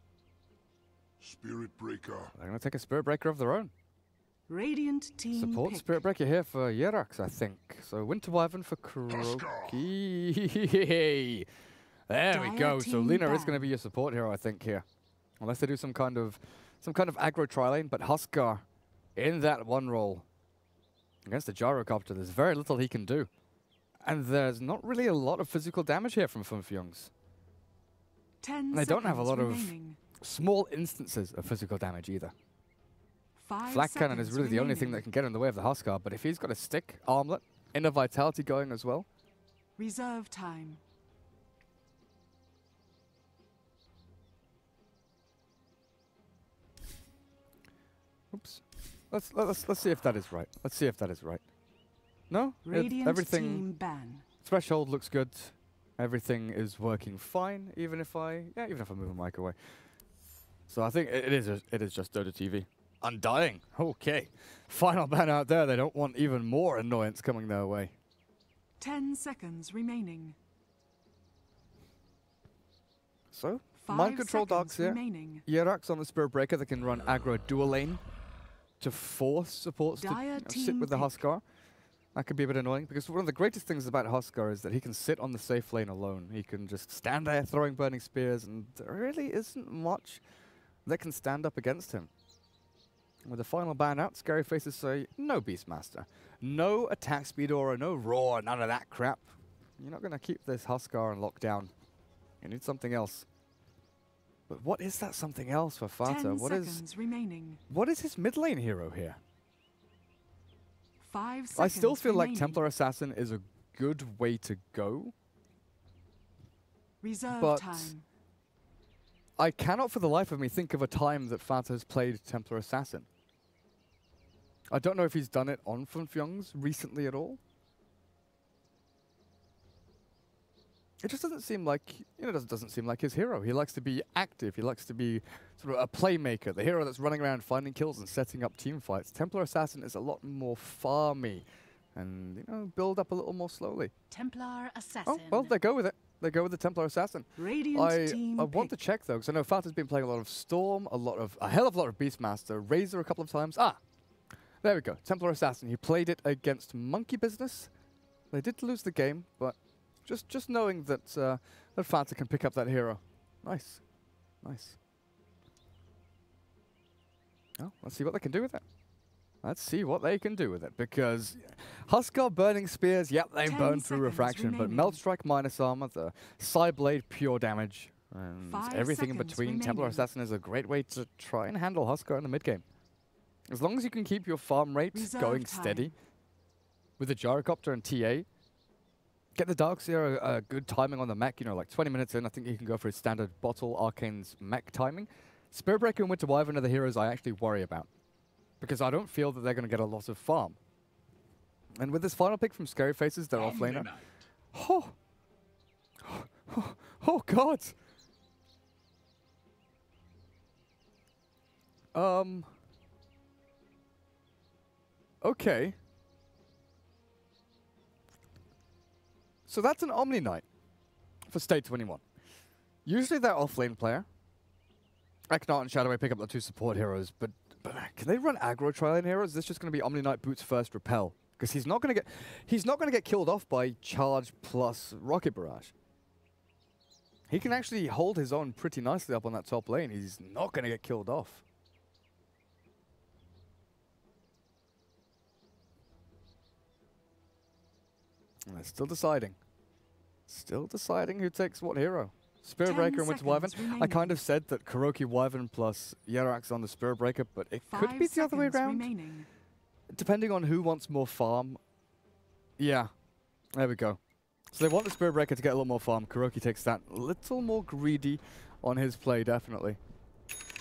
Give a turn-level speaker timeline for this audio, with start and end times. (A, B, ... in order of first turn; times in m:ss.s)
0:01.2-0:02.3 A
0:02.3-0:03.7 B
0:04.5-0:06.0 C
0:05.3-0:11.5 B
0:09.1-0:09.8 A
0:12.1-0:14.8 B
0:12.3-0:13.7 C
0:15.4-0:18.6 B
0:19.2-0:20.2 B
0:21.2-0:23.3 B
0:24.0-0:27.1 B
0:28.4-0:30.0 C
0:28.7-0:32.3 B
0:33.4-0:35.0 C
0:33.6-0:39.1 B
0:39.8-0:40.8 C
0:48.3-0:51.4 B
0:52.3-0:53.6 B
0:52.6-0:54.2 C
0:54.4-0:59.6 B
1:00.7-1:07.9 B
1:08.8-1:10.4 C
1:13.3-1:18.0 B
1:13.8-1:15.4 C
1:18.8-1:21.4 B
1:20.0-1:21.1 C
1:22.1-1:30.2 B
1:30.8-1:32.1 B
1:33.2-1:41.7 B
1:42.4-1:43.2 B
1:44.5-1:46.8 B
1:46.0-1:47.6 C
1:47.7-1:49.2 B
1:51.0-1:52.6 C
1:51.6-1:55.1 B
1:57.0-1:58.0 C
1:57.3-1:57.9 B
1:59.4-2:03.1 B
2:04.7-2:07.4 B
2:11.0-2:23.9 B
2:24.1-2:25.6 C
2:25.0-2:33.8 B
2:27.4-2:28.7 C
2:34.6-2:37.7 B
2:38.3-2:43.8 B
2:44.4-2:44.8 B
2:47.6-2:48.6 B
2:49.4-3:02.6 B
2:53.4-2:55.0 C
2:58.4-3:00.1 C
3:03.5-3:05.9 B
3:04.9-3:05.9 C
3:07.0-3:08.2 B
3:09.3-3:17.9 B
3:18.6-3:20.6 B
3:21.8-3:23.9 B
3:23.3-3:24.1 A
3:24.5-3:24.9 B
3:26.0-3:27.7 B
3:31.9-3:32.5 B
3:35.2-3:35.8 B
3:39.5-3:40.4 B
3:41.3-3:42.0 B
3:42.8-3:44.0 B
3:45.3-3:55.7 B
3:57.3-4:01.4 B
4:08.5-4:09.4 B
4:10.3-4:18.9 B
4:12.6-4:14.2 C
4:17.7-4:19.3 C
4:19.9-4:21.6 B
4:22.6-4:22.9 B
4:23.5-4:24.0 B
4:24.5-4:29.8 B